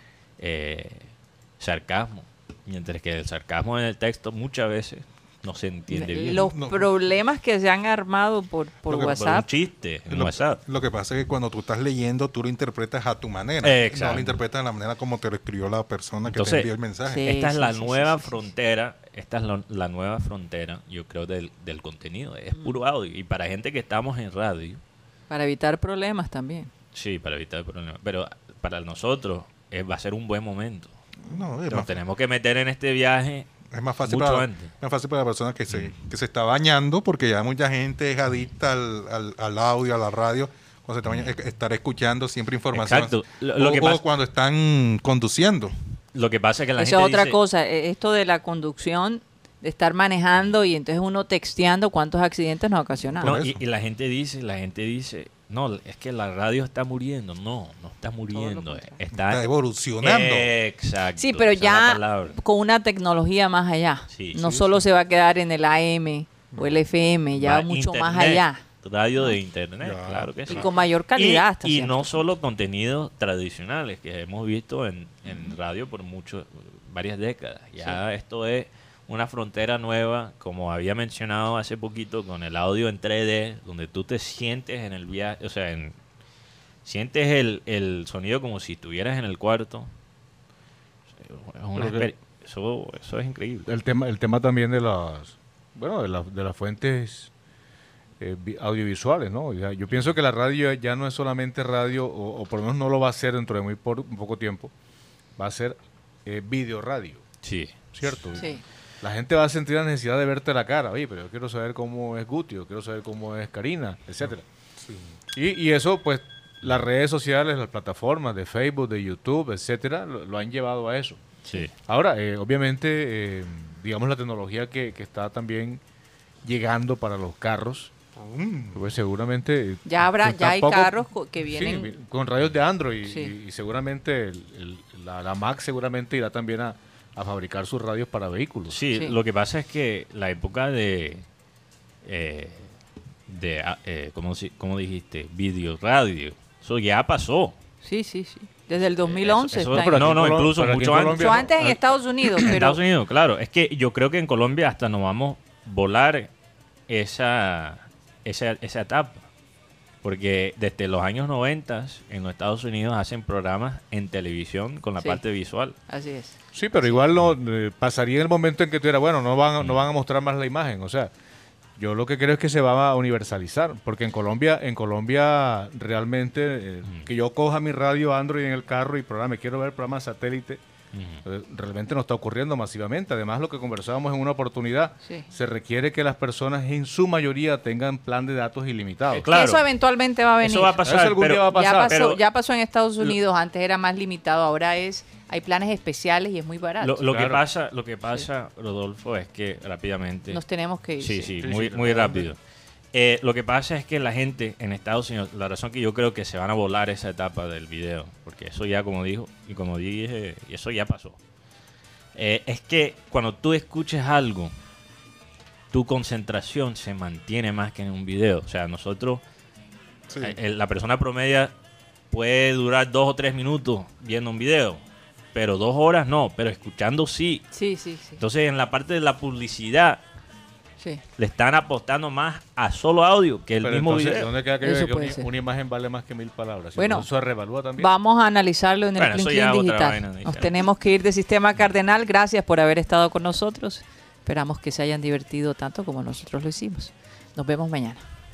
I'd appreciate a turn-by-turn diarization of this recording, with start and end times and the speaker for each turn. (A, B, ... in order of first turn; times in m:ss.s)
0:00.4-0:06.5 A
0:05.9-0:09.4 B
0:06.5-0:06.9 C
0:08.9-0:10.6 A
0:10.1-0:17.2 C
0:13.6-0:14.4 A
0:16.3-0:16.7 A
0:17.0-0:18.4 B
0:17.2-0:24.8 A
0:25.3-0:26.7 B
0:26.9-0:30.9 A
0:31.2-0:31.9 C
0:31.7-0:33.5 A
0:33.7-0:45.7 C
0:34.0-0:34.7 A
0:35.7-0:35.9 A
0:42.7-0:44.0 A
0:46.1-0:47.4 A
0:46.8-0:53.3 B
0:53.2-0:59.5 A
0:53.2-0:53.6 C
0:58.3-0:59.0 B
0:59.2-1:00.5 C
1:00.0-1:02.4 A
1:01.2-1:08.6 B
1:04.1-1:04.8 A
1:06.5-1:06.8 C
1:07.4-1:26.0 A
1:09.8-1:10.7 C
1:10.5-1:12.2 B
1:15.2-1:15.5 B
1:26.8-1:29.9 A
1:31.2-1:33.7 A
1:31.7-1:32.1 D
1:33.6-1:37.3 D
1:38.2-1:44.7 D
1:45.4-1:47.2 D
1:47.4-1:48.1 A
1:47.9-1:54.4 D
1:48.4-1:48.6 B
1:54.2-1:55.1 C
1:55.3-2:01.2 D
2:01.8-2:05.8 D
2:06.4-2:07.9 D
2:08.2-2:08.8 C
2:08.7-2:18.8 D
2:09.8-2:11.9 B
2:13.0-2:13.3 B
2:18.7-2:21.2 A
2:22.0-2:22.7 A
2:23.3-2:27.6 A
2:27.8-2:30.0 B
2:28.9-2:31.5 A
2:29.7-2:31.8 D
2:31.1-2:32.8 B
2:32.4-2:36.3 A
2:36.9-2:39.2 A
2:40.0-2:45.8 A
2:45.9-2:46.9 B
2:46.5-2:51.1 D
2:49.6-2:49.9 A
2:51.8-3:00.6 D
3:00.9-3:01.2 A
3:01.2-3:09.3 D
3:05.0-3:05.3 B
3:09.1-3:09.6 A
3:09.2-3:10.9 B
3:10.4-3:12.2 A
3:10.8-3:12.0 D
3:11.4-3:17.0 B
3:16.8-3:20.4 A
3:17.1-3:17.4 D
3:20.3-3:21.3 B
3:21.0-3:22.4 A
3:21.4-3:22.3 D
3:22.9-3:31.2 A
3:32.1-3:34.5 A
3:35.7-3:39.2 A
3:40.1-3:40.4 C
3:40.2-3:41.5 A
3:42.1-3:44.8 A
3:45.3-3:47.5 A
3:47.5-3:48.2 B
3:48.2-3:50.0 A
3:51.2-3:54.3 A
3:53.6-3:57.9 D
3:54.6-3:55.3 B
3:56.8-3:57.1 B
3:57.8-4:08.0 B
3:59.0-4:00.6 A